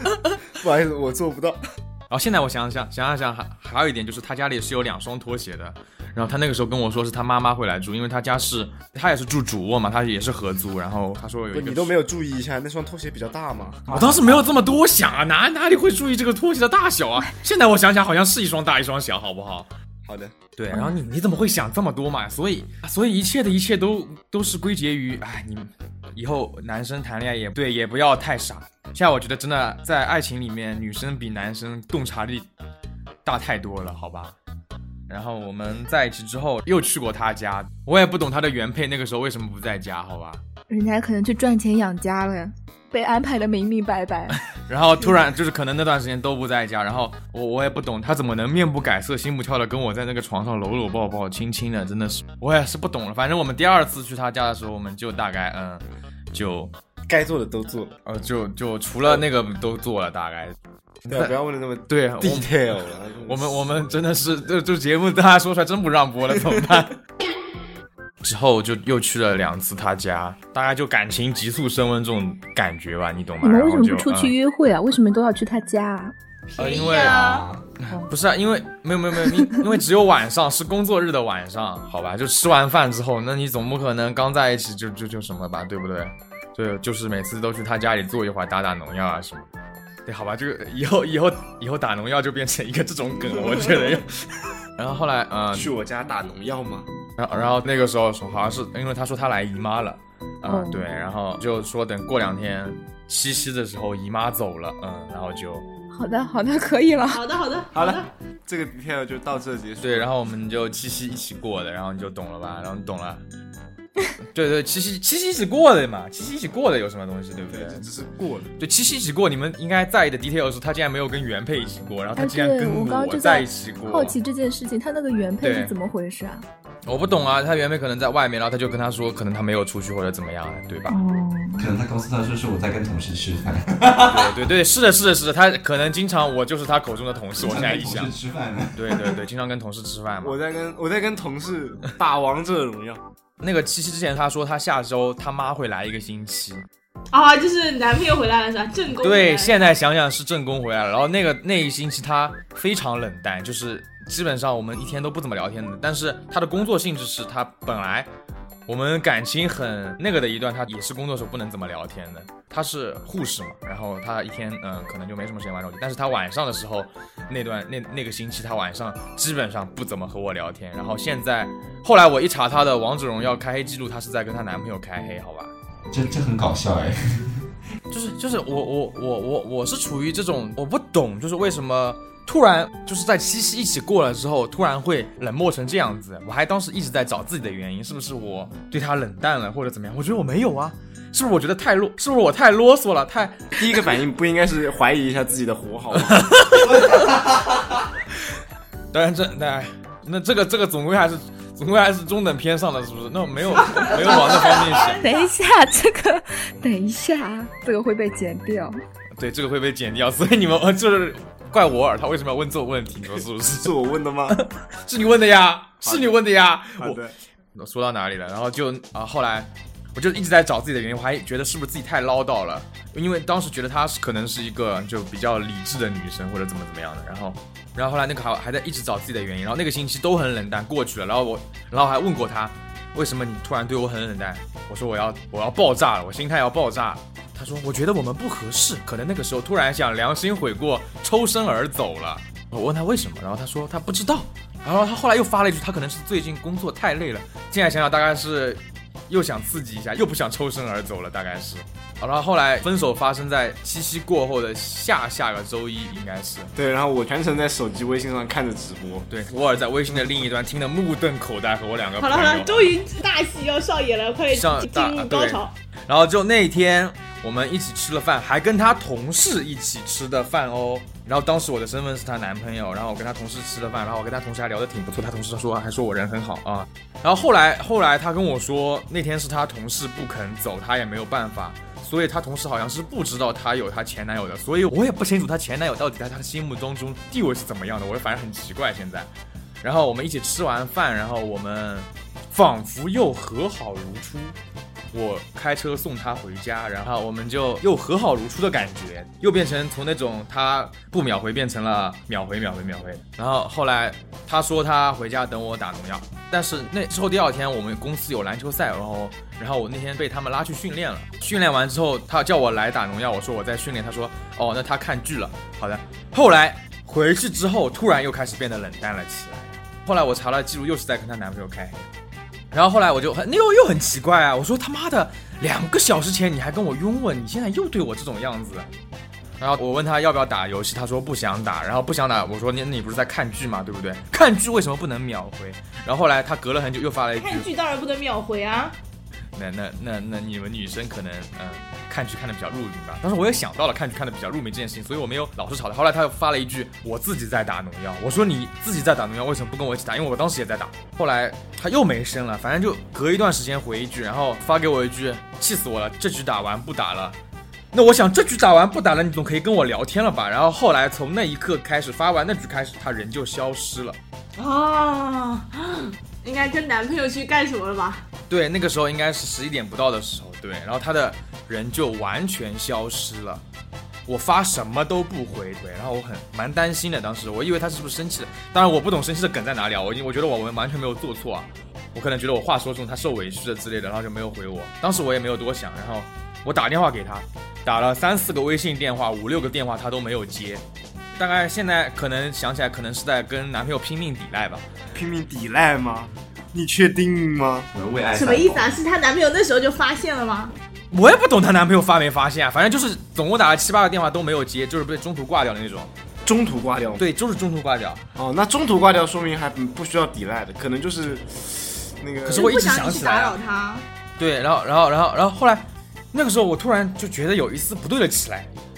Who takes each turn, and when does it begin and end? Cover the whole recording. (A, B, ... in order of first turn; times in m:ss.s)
0:00.5-0:01.6 A
0:02.1-0:11.9 B
0:11.5-0:14.6 A
0:13.9-0:19.7 B
0:20.0-0:20.3 A
0:20.6-0:32.5 B
0:33.2-0:34.3 B
0:35.1-0:40.4 B
0:40.7-0:44.4 C
0:44.5-0:56.7 B
0:57.1-0:57.9 A
0:58.0-1:01.4 B
1:01.1-1:03.9 A
1:01.9-1:02.7 B
1:03.2-1:07.0 B
1:08.2-1:14.3 B
1:13.4-1:16.1 C
1:16.5-1:17.6 D
1:16.6-1:17.2 B
1:16.6-1:17.5 E
1:17.8-1:29.5 B
1:30.0-1:34.1 B
1:34.8-1:35.7 B
1:35.5-1:36.9 A
1:37.2-1:45.6 B
1:40.4-1:40.8 C
1:45.9-1:47.2 C
1:47.1-1:48.1 E
1:47.7-1:50.1 A
1:49.8-1:53.2 B
1:54.3-1:57.9 B
1:57.5-1:58.5 A
1:58.6-2:04.2 B
2:02.2-2:06.4 C
2:05.4-2:05.7 B
2:06.8-2:11.0 B
2:10.9-2:11.7 C
2:11.6-2:14.4 D
2:14.0-2:18.1 B
2:17.4-2:19.2 D
2:18.7-2:20.4 B
2:20.2-2:23.0 A
2:23.4-2:26.6 B
2:27.1-2:29.7 E
2:29.0-2:38.1 B
2:38.7-2:55.5 B
2:55.9-2:57.4 D
2:57.9-3:13.6 B
3:13.5-3:16.3 A
3:16.0-3:17.0 B
3:18.9-3:25.0 B
3:23.7-3:25.2 E
3:24.1-3:28.8 C
3:29.2-3:33.7 B
3:33.6-3:34.4 A
3:34.3-3:37.0 B
3:35.8-3:36.2 A
3:36.8-3:37.1 A
3:37.5-4:16.5 B
4:16.5-4:19.1 A
4:19.1-4:22.7 B
4:22.0-4:25.5 E
4:24.3-4:49.1 B
4:49.6-4:54.4 B
4:54.9-5:21.9 B
5:22.5-5:28.7 B
5:29.4-5:37.5 B
5:37.1-5:38.7 E
5:39.3-5:57.2 B
5:57.7-6:04.0 B
6:04.4-6:08.0 E
6:08.3-6:13.4 B
6:14.1-6:30.6 B
6:31.2-6:34.6 B
6:34.9-6:37.7 A
6:37.7-6:38.8 D
6:38.1-6:40.5 E
6:40.9-6:45.9 B
6:46.2-6:47.0 A
6:47.0-6:48.0 B
6:48.2-6:52.5 A
6:52.2-6:53.4 B
6:52.3-6:53.8 E
6:54.2-6:58.5 B